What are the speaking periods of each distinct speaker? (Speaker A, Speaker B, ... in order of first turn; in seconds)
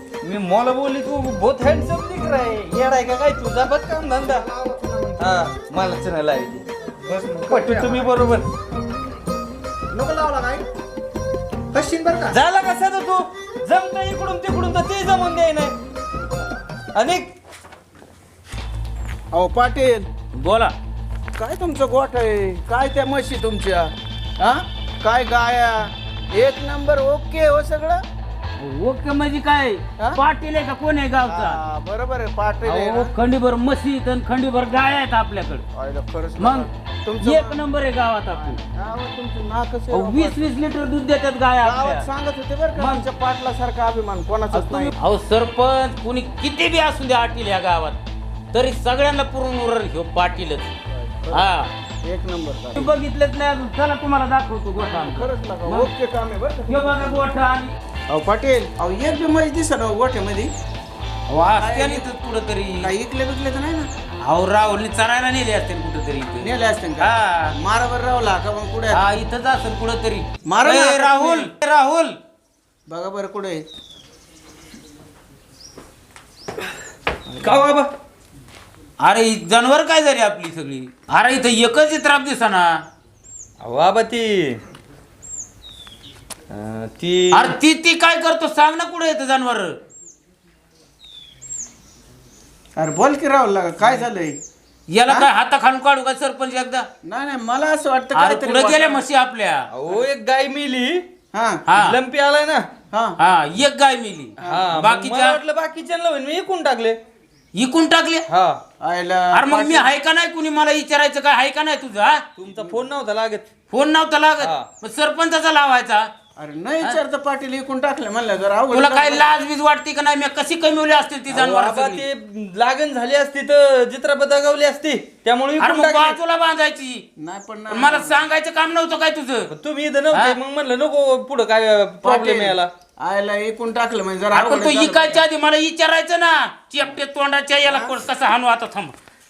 Speaker A: 0.2-4.5, 5.2-6.6, 7.5-8.5, 12.3-15.8, 16.9-17.3, 77.4-77.9, 83.6-84.6, 86.5-87.6, 99.7-101.0, 101.7-102.7, 104.4-107.0, 108.3-108.6, 112.4-113.5, 114.4-114.7, 121.3-126.2, 129.5-132.7
Speaker B: 4.2-5.5, 7.1-8.1, 9.9-10.7, 11.7-12.4
Speaker C: 19.3-20.1, 21.4-23.9, 25.0-28.0, 31.2-33.1, 35.7-37.6, 38.3-40.4, 41.6-44.9, 51.1-51.5, 52.0-52.9, 54.8-57.3, 58.1-60.5, 61.6-62.1, 62.8-63.9, 66.4-69.0, 70.5-71.5, 72.9-73.6, 92.8-94.4, 97.1-99.0, 101.3-101.6, 102.9-103.2, 104.4-104.7, 108.8-109.9, 116.4-119.3, 127.2-128.2, 132.0-135.2, 137.7-138.0
Speaker D: 20.4-20.7, 28.6-31.6, 32.6-35.6, 36.4-36.7, 37.2-38.6, 39.9-42.1, 42.8-43.1, 44.5-48.0, 48.5-50.7, 51.3-51.7, 52.8-55.9, 56.7-57.7, 61.3-62.9, 64.3-67.5, 68.9-72.2, 79.0-82.8, 87.3-89.8, 94.9-96.9, 98.1-99.7, 101.7-102.0, 103.2-105.4, 107.6-108.2, 109.3-112.2, 113.7-116.1, 118.7-122.0, 125.6-127.0, 127.7-129.5, 130.1-130.4, 134.3-138.9